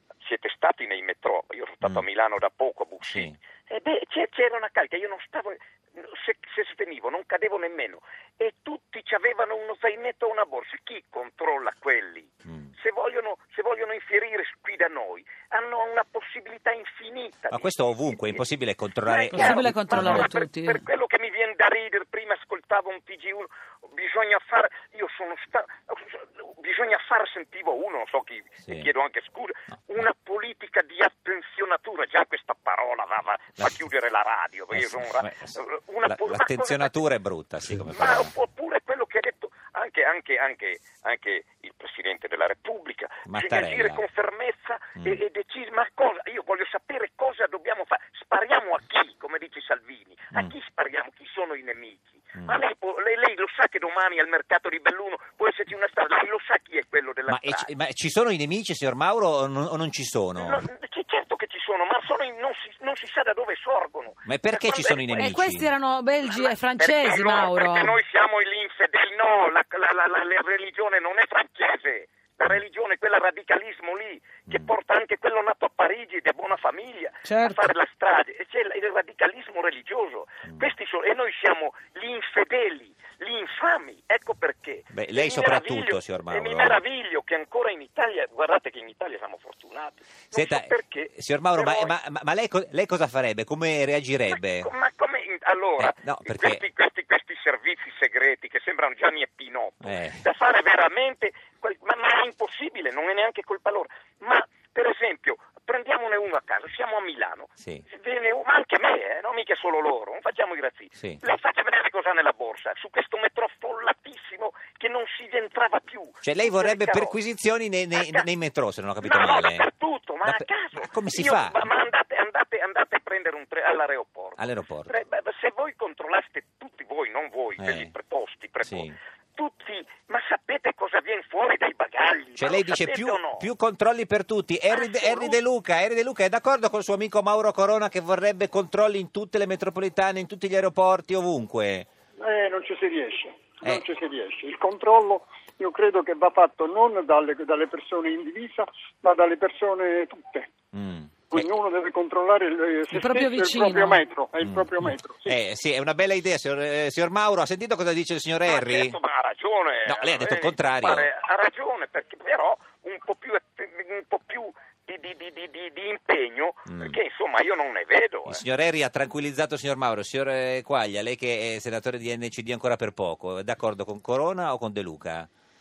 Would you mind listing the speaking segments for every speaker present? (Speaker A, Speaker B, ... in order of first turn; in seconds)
Speaker A: 0.2-18.5, 19.0-36.9, 37.9-57.7, 60.4-65.3, 66.2-91.9, 94.3-117.2, 117.9-118.3, 119.0-133.4, 134.7-135.4, 158.5-168.4
Speaker B: 3.1-3.4, 12.4-12.7, 17.5-20.3, 34.7-38.3, 43.2-44.0, 57.3-60.6, 64.2-65.7, 74.5-74.7, 84.9-86.8, 90.3-94.7, 95.8-96.6, 99.8-100.2, 107.6-107.8, 116.2-119.7, 120.2-121.6, 124.4-124.9, 127.6-127.9, 128.6-128.9, 132.3-141.9, 150.7-151.5, 154.4-159.0, 159.8-161.1, 166.7-167.0, 168.2-175.3
Speaker C: 19.3-20.8, 65.1-67.9, 77.2-77.7, 152.9-154.0
Speaker D: 142.2-150.5, 151.3-155.4